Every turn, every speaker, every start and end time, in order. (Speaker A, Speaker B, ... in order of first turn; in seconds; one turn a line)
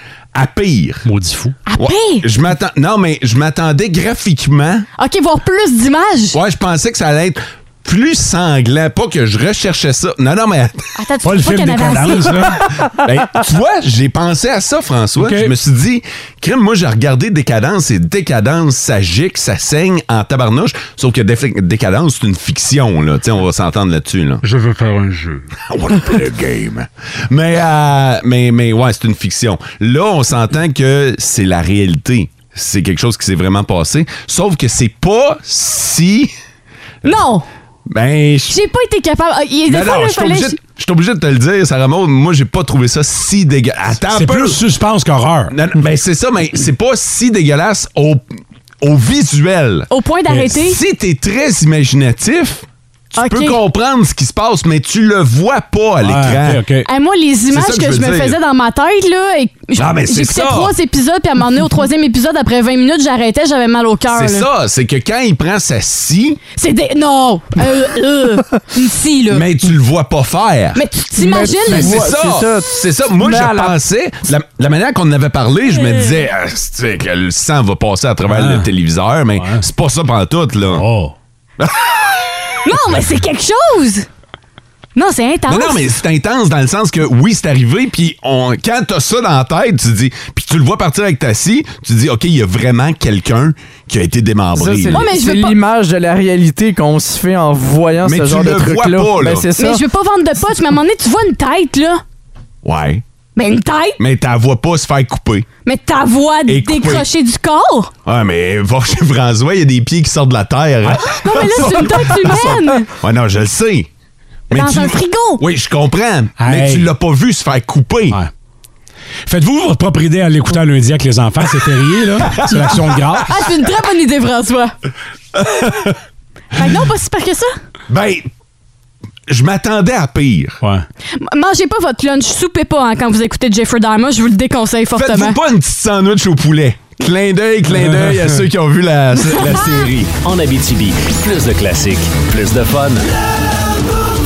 Speaker A: 0.3-1.0
Speaker B: 1.0-1.6
Speaker C: 1.7-2.2
Speaker A: 1.8-4.9
Speaker C: 5.0-6.3
Speaker A: 6.3-10.9
Speaker C: 11.0-12.4
Speaker B: 11.2-12.6
Speaker A: 12.9-24.4
Speaker B: 15.2-15.5
Speaker B: 24.4-25.4
Speaker A: 25.6-36.3
Speaker C: 37.0-37.4
Speaker A: 37.9-38.5
Speaker C: 38.5-40.5
Speaker A: 39.7-44.6
Speaker B: 44.1-45.5
Speaker A: 45.5-48.2
Speaker A: 48.8-49.9
Speaker C: 49.9-50.8
Speaker A: 50.5-56.6
Speaker C: 53.1-53.6
Speaker B: 56.0-56.9
Speaker C: 56.9-64.5
Speaker A: 57.5-58.4
Speaker A: 59.8-60.7
Speaker A: 64.1-66.4
Speaker C: 66.6-69.4
Speaker A: 69.3-70.8
Speaker C: 70.7-72.0
Speaker D: 71.2-73.7
Speaker A: 71.7-80.8
Speaker B: 78.3-78.7
Speaker B: 79.3-79.6
Speaker B: 80.7-81.1
Speaker A: 81.6-82.7
Speaker C: 82.6-84.1
Speaker C: 85.0-85.8
Speaker A: 85.5-95.1
Speaker D: 94.5-99.8
Speaker C: 94.9-95.5
Speaker A: 98.0-99.5
Speaker C: 99.6-102.0
Speaker A: 102.6-103.0
Speaker C: 103.3-104.0
Speaker A: 104.0-105.5
Speaker C: 105.6-107.9
Speaker A: 106.5-107.0
Speaker A: 108.0-113.9
Speaker C: 111.1-112.9
Speaker A: 114.5-118.2
Speaker C: 114.5-115.4
Speaker B: 116.4-116.9
Speaker B: 119.2-123.3
Speaker A: 122.3-122.9
Speaker C: 123.3-124.7
Speaker A: 125.3-126.0
Speaker C: 126.5-127.5
Speaker A: 127.9-128.3
Speaker A: 129.3-130.6
Speaker C: 131.2-135.4
Speaker A: 134.9-140.1
Speaker B: 137.7-138.4
Speaker E: 140.2-143.0